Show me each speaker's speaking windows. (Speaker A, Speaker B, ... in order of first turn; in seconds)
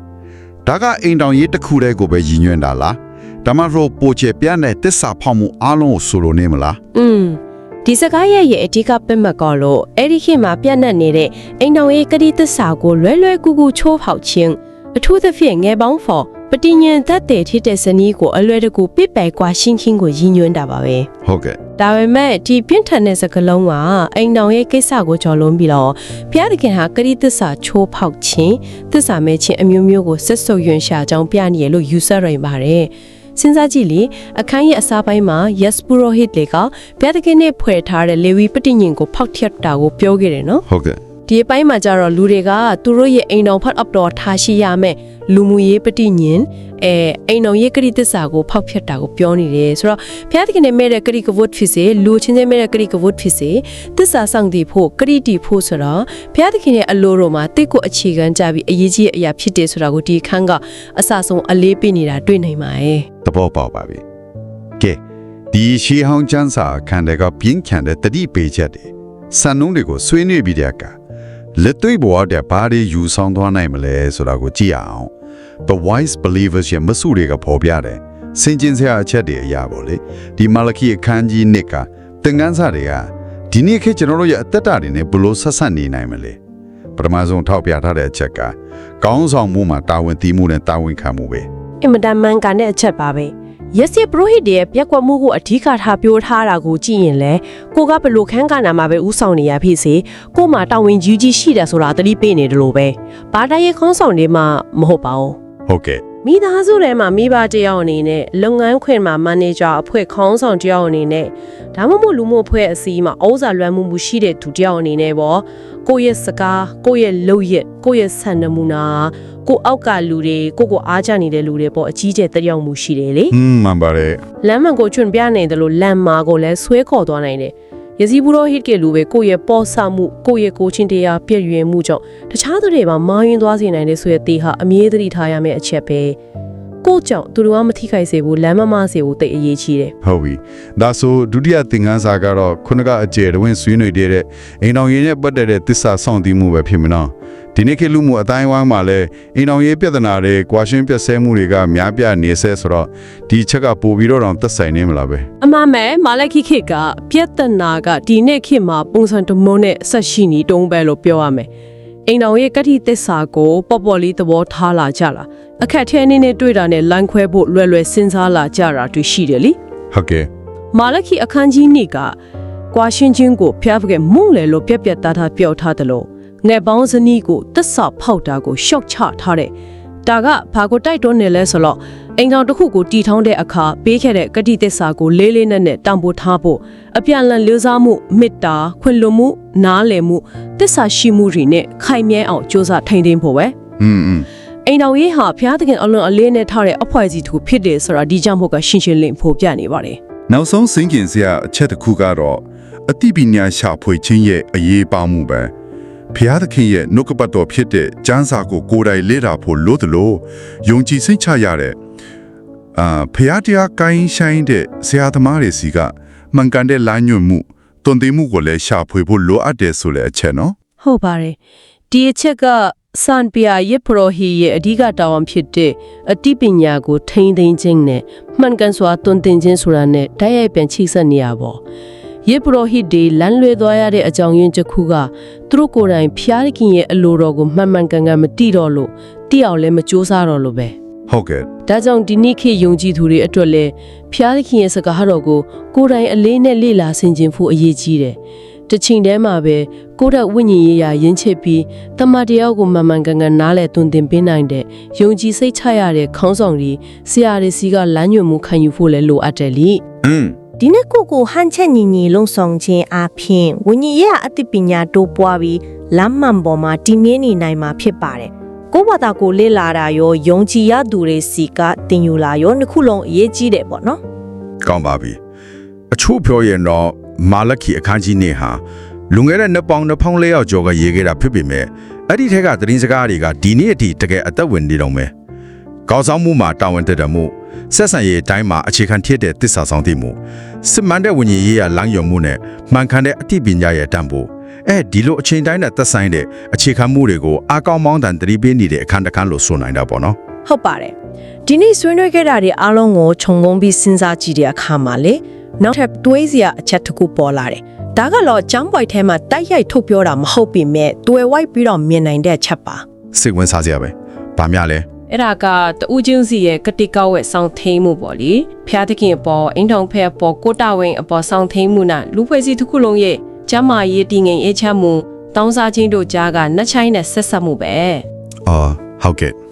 Speaker A: 0.6-6.8, 21.2-21.6, 40.7-41.0, 63.2-64.0, 65.5-70.9, 71.5-75.1, 75.6-86.4, 87.0-91.5, 105.7-106.0, 123.3-124.2, 140.0-155.3, 169.9-170.3, 193.8-194.3, 200.3-205.5, 206.1-211.8, 212.7-220.5, 241.1-241.5, 260.0-260.3, 274.6-275.2, 275.9-285.1, 285.9-300.2, 313.1-314.9, 328.4-329.4
Speaker B: 6.9-21.1, 21.8-40.6, 41.3-63.1, 91.8-105.4, 106.2-123.3, 124.4-136.2, 136.8-139.9, 155.4-161.5, 162.1-169.6, 170.7-172.2, 172.7-179.5, 180.1-193.6, 194.7-200.0, 220.8-221.3, 221.9-231.6, 232.2-240.7, 241.7-248.2, 248.7-259.8, 300.4-300.9, 301.4-312.8, 315.1-328.0
Speaker C: 260.6-274.0